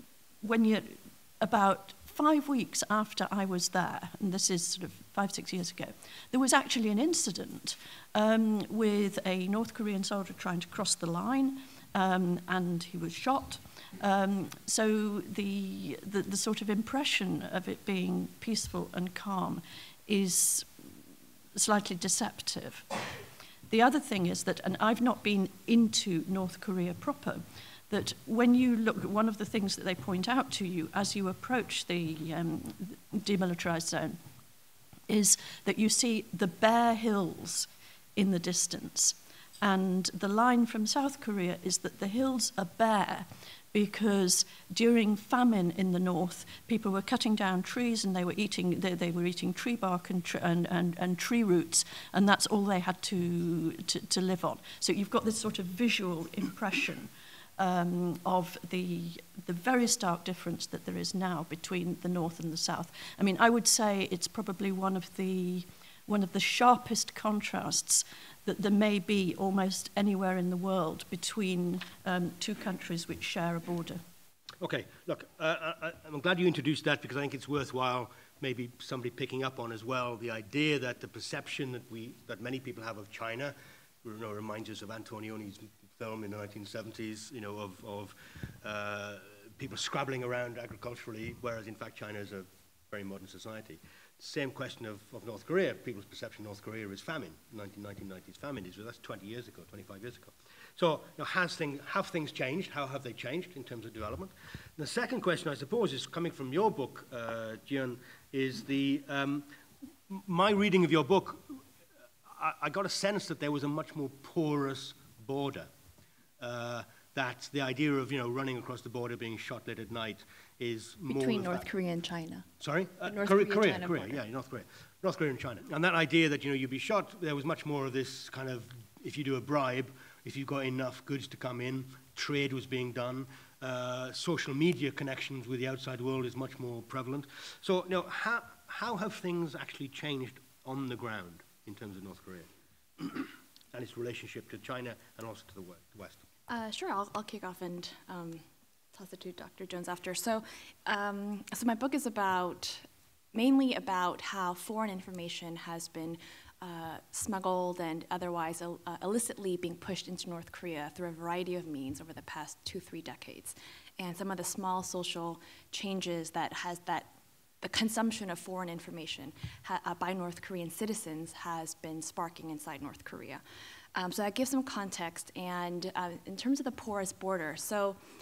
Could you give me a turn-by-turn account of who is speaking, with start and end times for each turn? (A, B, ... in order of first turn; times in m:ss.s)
0:00.4-0:20.7 A
0:21.5-0:22.9 A
0:23.7-0:34.2 A
0:35.1-1:14.0 A
1:14.6-1:49.5 B
1:50.1-1:51.6 B
1:52.2-1:55.7 B
1:56.4-2:01.6 B
2:01.1-2:02.4 C
2:02.6-2:22.5 B
2:03.0-2:04.2 C
2:23.0-2:26.2 B
2:26.5-2:47.1 C
2:47.6-2:53.4 C
2:53.9-2:58.0 C